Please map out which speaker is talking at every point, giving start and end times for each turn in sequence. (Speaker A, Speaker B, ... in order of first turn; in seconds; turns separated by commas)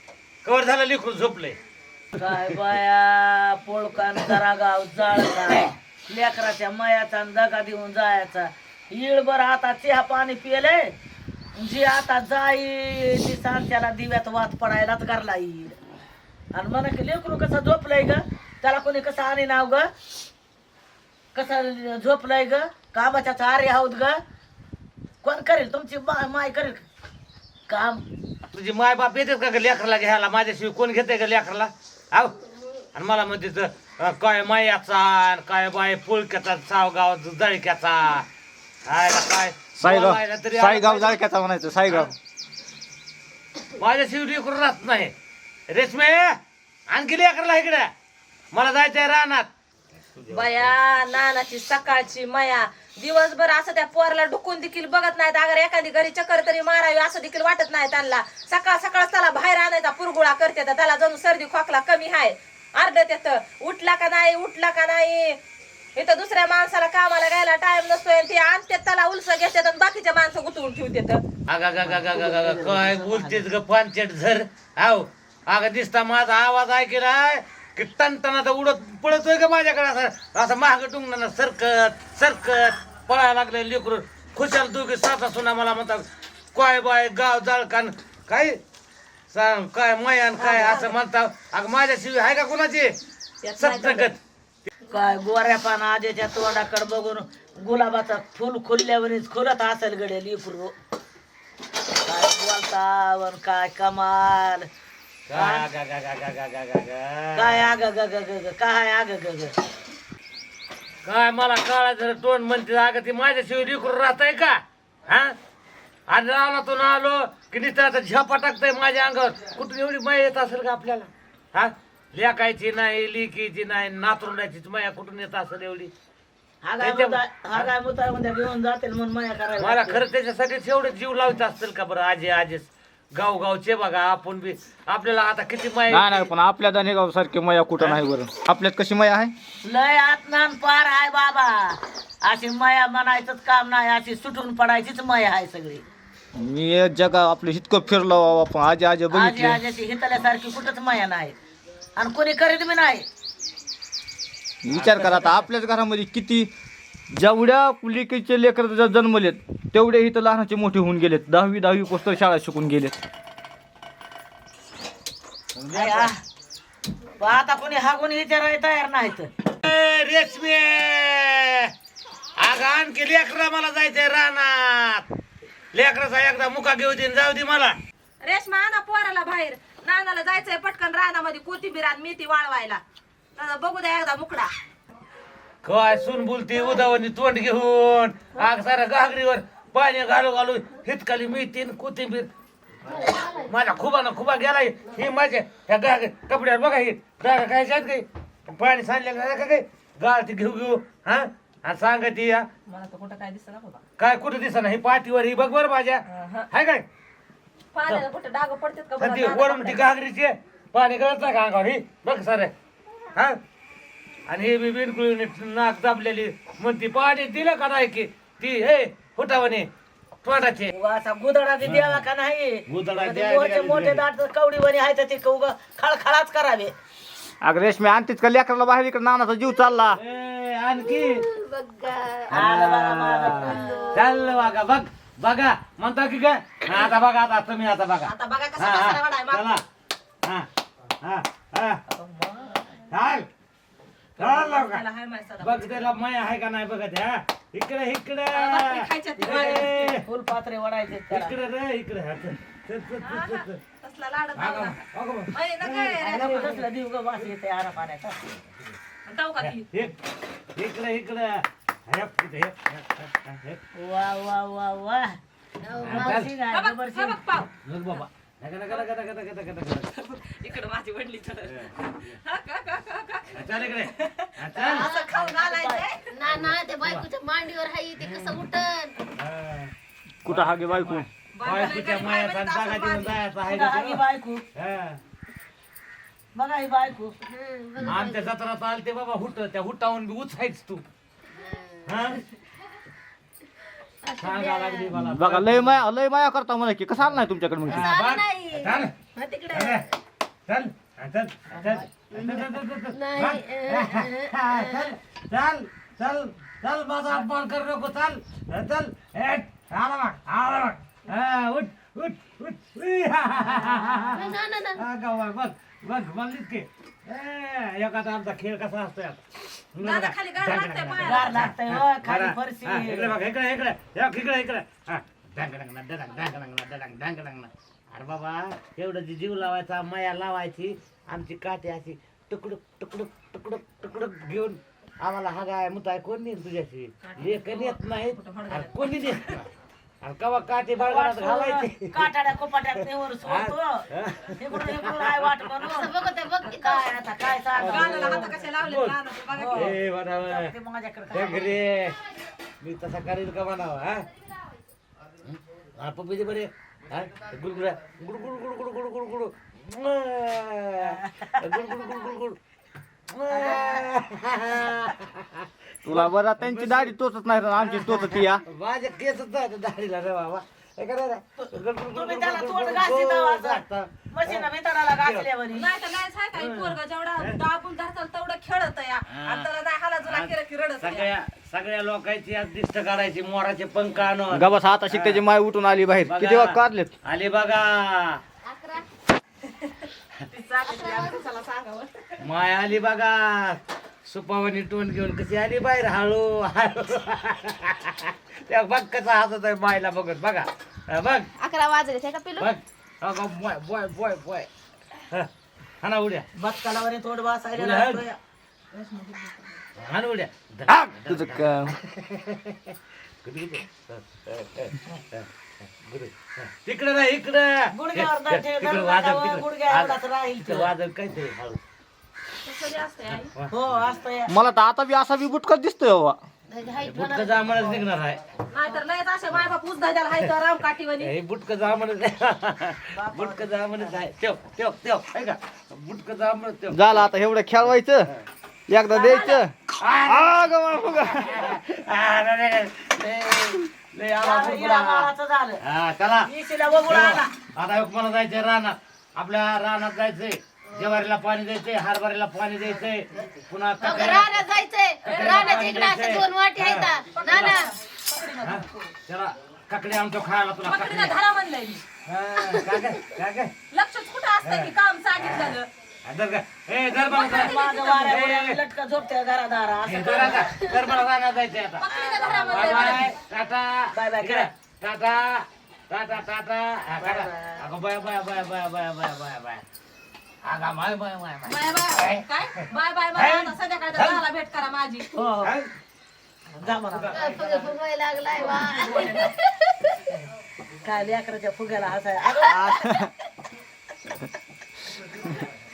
Speaker A: 0.4-1.6, Speaker A: 2.1-2.6, Speaker B: 2.2-10.9, Speaker B: 11.6-15.8, Speaker B: 16.5-19.9, Speaker B: 21.3-24.2, Speaker B: 25.2-26.8, Speaker B: 27.7-28.0, Speaker A: 28.5-32.3, Speaker A: 32.9-38.2, Speaker A: 38.9-41.2, Speaker C: 39.8-42.1, Speaker A: 43.8-45.1, Speaker A: 45.7-47.9, Speaker A: 48.5-49.5, Speaker A: 50.0-50.7, Speaker D: 50.3-65.4, Speaker D: 66.0-71.2, Speaker A: 71.5-88.6, Speaker B: 71.8-73.5, Speaker A: 89.3-93.0, Speaker D: 90.4-90.9, Speaker D: 93.4-94.1, Speaker A: 93.6-94.7, Speaker B: 94.9-100.7, Speaker B: 102.0-104.7, Speaker A: 105.3-107.7, Speaker B: 105.3-105.7, Speaker B: 107.3-109.5, Speaker A: 111.0-115.3, Speaker A: 116.1-125.9, Speaker B: 126.6-130.0, Speaker A: 126.8-127.7, Speaker A: 129.6-136.3, Speaker C: 135.9-139.3, Speaker A: 137.8-138.0, Speaker B: 139.6-145.8, Speaker C: 146.3-149.6, Speaker B: 149.1-151.3, Speaker B: 151.9-153.0, Speaker C: 154.6-156.5, Speaker A: 154.7-155.5, Speaker C: 157.1-163.0, Speaker A: 165.6-166.1, Speaker B: 165.7-166.2, Speaker B: 167.2-169.3, Speaker A: 169.5-171.7, Speaker A: 172.4-175.1, Speaker A: 175.7-177.8, Speaker D: 178.2-182.8, Speaker D: 183.3-184.5, Speaker A: 185.6-192.3, Speaker A: 193.3-202.5, Speaker D: 202.7-203.8, Speaker A: 204.0-206.8, Speaker D: 206.1-206.5, Speaker D: 207.7-209.8, Speaker A: 209.0-212.5, Speaker A: 214.3-219.7, Speaker A: 220.2-220.7, Speaker B: 220.7-226.7, Speaker A: 221.6-222.1, Speaker A: 222.7-224.0, Speaker C: 227.4-230.0, Speaker A: 229.9-231.2, Speaker E: 231.0-232.3, Speaker A: 232.3-239.6, Speaker B: 232.3-233.7, Speaker E: 233.3-234.0, Speaker D: 238.0-239.6, Speaker A: 241.0-241.8, Speaker D: 242.1-242.7, Speaker A: 242.9-243.3, Speaker D: 244.2-245.9, Speaker A: 244.2-244.8, Speaker A: 245.4-250.0, Speaker D: 248.3-250.0, Speaker B: 250.0-251.3, Speaker A: 251.1-253.6, Speaker D: 253.0-256.6, Speaker A: 254.3-256.6, Speaker B: 256.1-258.5, Speaker D: 259.0-259.6, Speaker A: 259.4-259.9, Speaker A: 260.6-263.6, Speaker B: 263.8-265.1, Speaker A: 265.8-266.3, Speaker D: 265.8-267.5, Speaker B: 265.8-267.2, Speaker A: 267.6-269.9, Speaker D: 269.9-276.1, Speaker A: 271.4-272.2, Speaker A: 273.3-274.9, Speaker B: 274.5-275.8, Speaker E: 276.1-278.9, Speaker A: 276.2-277.1, Speaker A: 278.0-278.4, Speaker A: 279.1-279.7, Speaker C: 280.2-281.1, Speaker A: 280.2-284.0, Speaker D: 281.3-283.2, Speaker B: 283.4-284.4, Speaker A: 284.5-285.0, Speaker B: 286.3-287.2, Speaker E: 287.3-288.3, Speaker A: 287.8-290.8, Speaker E: 291.4-291.9, Speaker A: 291.9-292.2, Speaker E: 294.0-294.8, Speaker A: 294.2-295.8, Speaker C: 294.9-297.9, Speaker A: 297.7-298.9, Speaker E: 297.8-299.9, Speaker A: 299.5-299.9, Speaker A: 300.5-319.2, Speaker E: 302.1-304.7, Speaker B: 313.5-314.3, Speaker E: 314.3-314.8, Speaker A: 319.7-339.5, Speaker D: 319.8-321.5, Speaker B: 321.0-323.1, Speaker D: 337.0-339.4, Speaker A: 340.0-342.1, Speaker B: 340.8-343.7, Speaker A: 342.8-345.3, Speaker B: 344.4-348.4, Speaker E: 345.7-346.9, Speaker A: 347.5-349.0, Speaker D: 347.6-349.7, Speaker B: 349.3-351.6, Speaker A: 349.5-350.5, Speaker A: 351.1-351.9, Speaker A: 352.6-354.1, Speaker A: 355.2-362.4, Speaker B: 360.9-361.4, Speaker A: 363.1-366.9, Speaker B: 363.3-363.9, Speaker C: 365.8-368.4, Speaker A: 367.5-375.3, Speaker B: 371.4-375.7, Speaker D: 375.5-381.1, Speaker A: 376.3-377.4, Speaker A: 379.1-379.5, Speaker A: 380.0-385.3, Speaker C: 384.3-386.9, Speaker A: 386.1-388.2, Speaker D: 388.5-388.8, Speaker D: 389.6-392.0, Speaker A: 392.2-401.3, Speaker E: 401.4-402.4, Speaker A: 402.4-404.5, Speaker A: 405.8-406.3, Speaker B: 406.4-408.2, Speaker A: 407.5-408.0, Speaker D: 408.7-409.6, Speaker A: 409.8-415.3, Speaker C: 410.7-411.7, Speaker A: 415.8-421.6, Speaker B: 417.7-420.7, Speaker D: 422.4-423.3, Speaker A: 423.1-423.8, Speaker B: 423.5-424.3, Speaker C: 424.3-426.2, Speaker E: 426.5-427.7, Speaker A: 426.8-428.2, Speaker D: 428.5-431.1, Speaker A: 431.0-438.2, Speaker B: 432.9-434.1, Speaker C: 436.7-438.1, Speaker C: 438.7-441.6, Speaker D: 438.9-439.4, Speaker A: 439.8-445.1, Speaker B: 444.1-445.6, Speaker A: 445.6-446.3, Speaker B: 446.2-447.3, Speaker A: 446.8-454.3, Speaker B: 453.8-454.4, Speaker E: 454.0-457.7, Speaker A: 455.0-457.7, Speaker D: 455.0-455.8, Speaker D: 457.1-458.9, Speaker A: 458.4-461.1, Speaker D: 460.6-461.8, Speaker A: 462.0-463.5, Speaker D: 463.7-465.7, Speaker A: 464.4-464.7, Speaker A: 466.0-468.6, Speaker D: 467.0-468.2, Speaker B: 467.1-470.7, Speaker A: 469.8-479.6, Speaker D: 471.8-473.1, Speaker B: 471.9-473.1, Speaker B: 473.9-474.5, Speaker B: 477.0-477.6, Speaker A: 480.4-484.2, Speaker D: 481.4-485.2, Speaker B: 485.1-485.5, Speaker A: 485.4-485.7, Speaker B: 486.5-487.5, Speaker A: 486.6-487.8, Speaker E: 487.1-489.3, Speaker D: 488.3-489.4, Speaker B: 490.8-493.0, Speaker C: 492.4-493.1, Speaker A: 495.1-495.5